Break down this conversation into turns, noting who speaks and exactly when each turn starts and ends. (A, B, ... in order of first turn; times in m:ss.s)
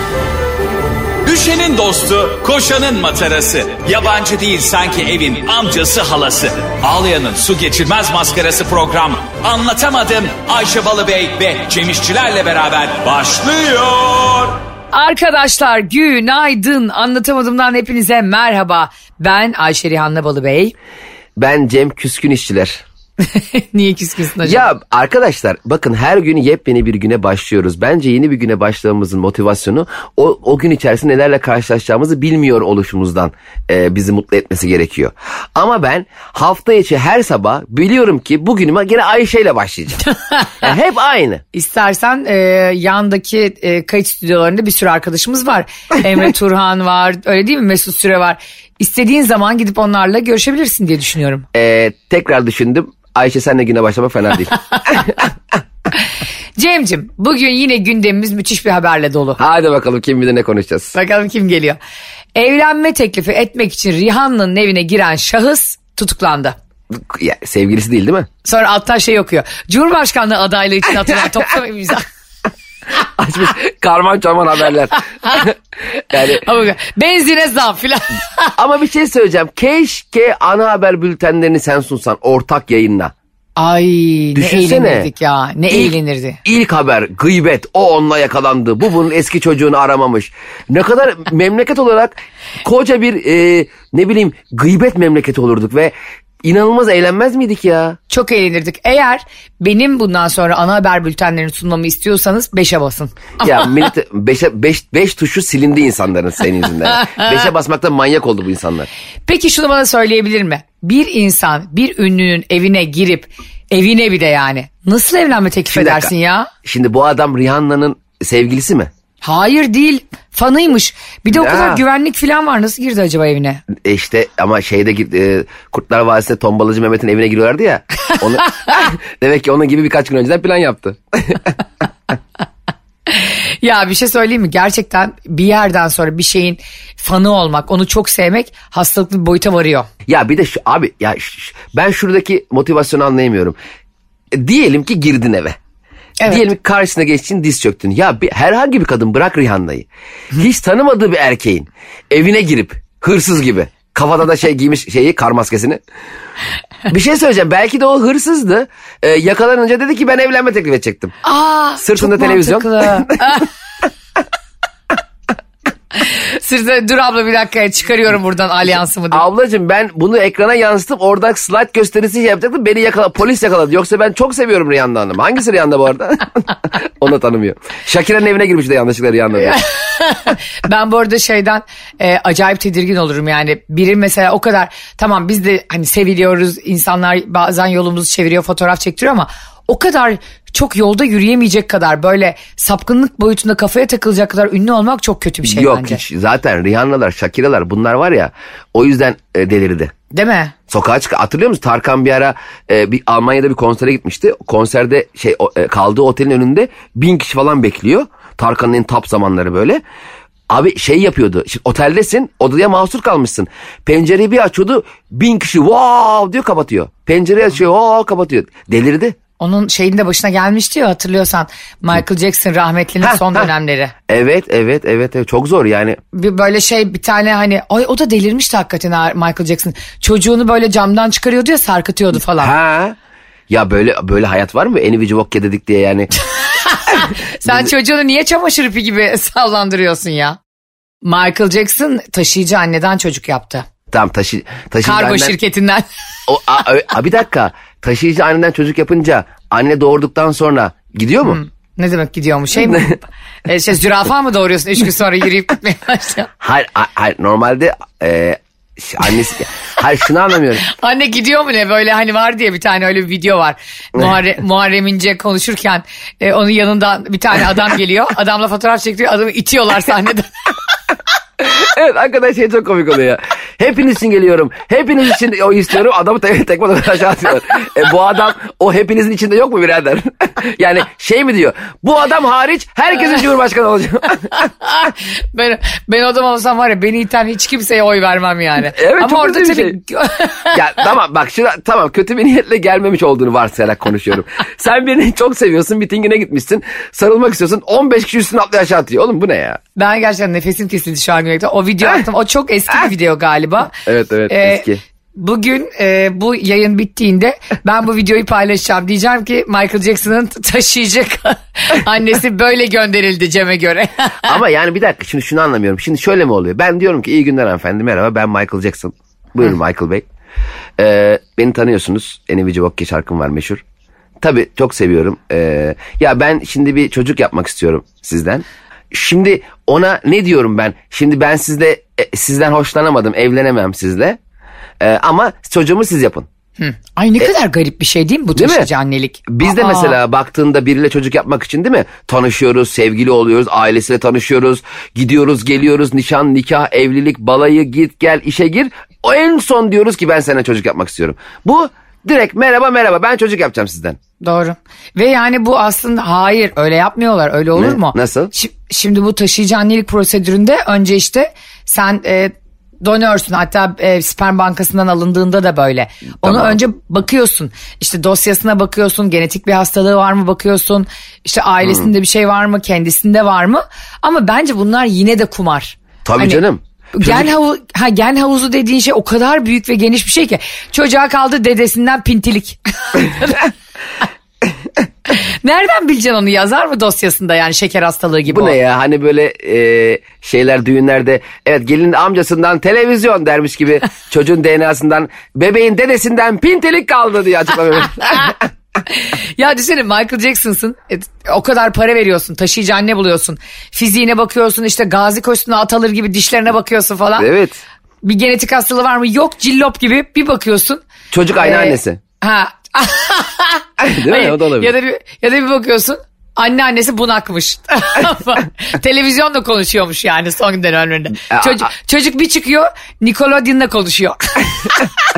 0:01.2-0:14.6 A
0:14.9-0:20.7 B
0:21.4-0:22.8 C
0:23.3-0:24.7 B
0:24.4-0:40.0 C
0:40.2-0:40.7 B
0:40.6-0:41.4 C
0:41.5-0:51.5 B
0:51.5-0:55.3 C
0:56.6-0:59.4 B
0:59.4-1:01.0 C
1:00.9-1:01.8 B
1:02.4-1:06.6 B
1:06.9-1:08.3 C
1:08.4-1:12.1 B
1:13.0-1:16.4 C
1:16.2-1:18.5 B
1:18.6-1:23.1 C
1:23.6-1:26.4 B
1:24.4-1:25.1 C
1:26.4-1:32.1 C
1:32.6-1:35.9 C
1:36.4-1:38.0 C
1:38.1-1:43.7 B
1:43.4-1:48.9 C
1:49.3-1:56.5 B
1:55.7-1:56.1 C
1:56.6-1:58.9 C
1:59.2-2:03.6 B
2:01.3-2:01.8 C
2:03.7-2:11.6 C
2:13.1-2:19.9 B
2:20.1-2:23.6 C
2:24.3-2:25.6 C
2:26.3-2:35.8 C
2:36.9-2:41.2 C
2:41.2-2:43.5 B
2:41.8-2:43.4 C
2:46.0-2:49.2 B
2:49.1-2:59.6 C
2:59.4-3:16.0 B
3:15.4-3:19.9 C
3:20.1-3:20.5 B
3:20.7-3:29.8 C
3:30.5-3:39.2 C
3:39.4-3:43.9 B
3:43.0-3:43.5 C
3:44.1-3:46.0 C
3:46.1-3:52.5 B
3:52.4-3:53.0 C
3:53.5-3:56.1 C
3:56.7-4:00.4 B
3:57.5-3:57.7 C
4:01.0-4:03.7 B
4:03.9-4:05.4 C
4:04.8-4:05.8 B
4:06.3-4:11.4 C
4:11.2-4:16.3 B
4:12.6-4:12.9 C
4:16.4-4:20.7 C
4:20.7-4:30.3 B
4:31.4-4:44.5 C
4:44.6-4:50.6 B
4:48.6-4:49.8 C
4:50.5-4:59.6 C
4:59.8-5:14.3 B
5:03.8-5:04.8 C
5:14.2-5:20.0 C
5:20.8-5:23.6 C
5:24.2-5:34.2 C
5:34.8-5:36.3 C
5:36.6-5:40.0 B
5:38.4-5:38.7 C
5:39.3-5:54.0 C
5:54.2-6:16.4 B
5:57.6-5:58.3 C
6:06.2-6:06.6 C
6:11.6-6:11.9 C
6:16.0-6:17.3 C
6:16.9-6:23.5 B
6:25.1-6:28.6 B
6:28.3-6:38.5 C
6:38.9-6:47.3 B
6:47.2-6:47.6 C
6:48.0-6:50.8 B
6:51.1-6:52.0 C
6:51.4-7:04.9 B
6:53.8-6:54.7 C
7:01.3-7:01.7 C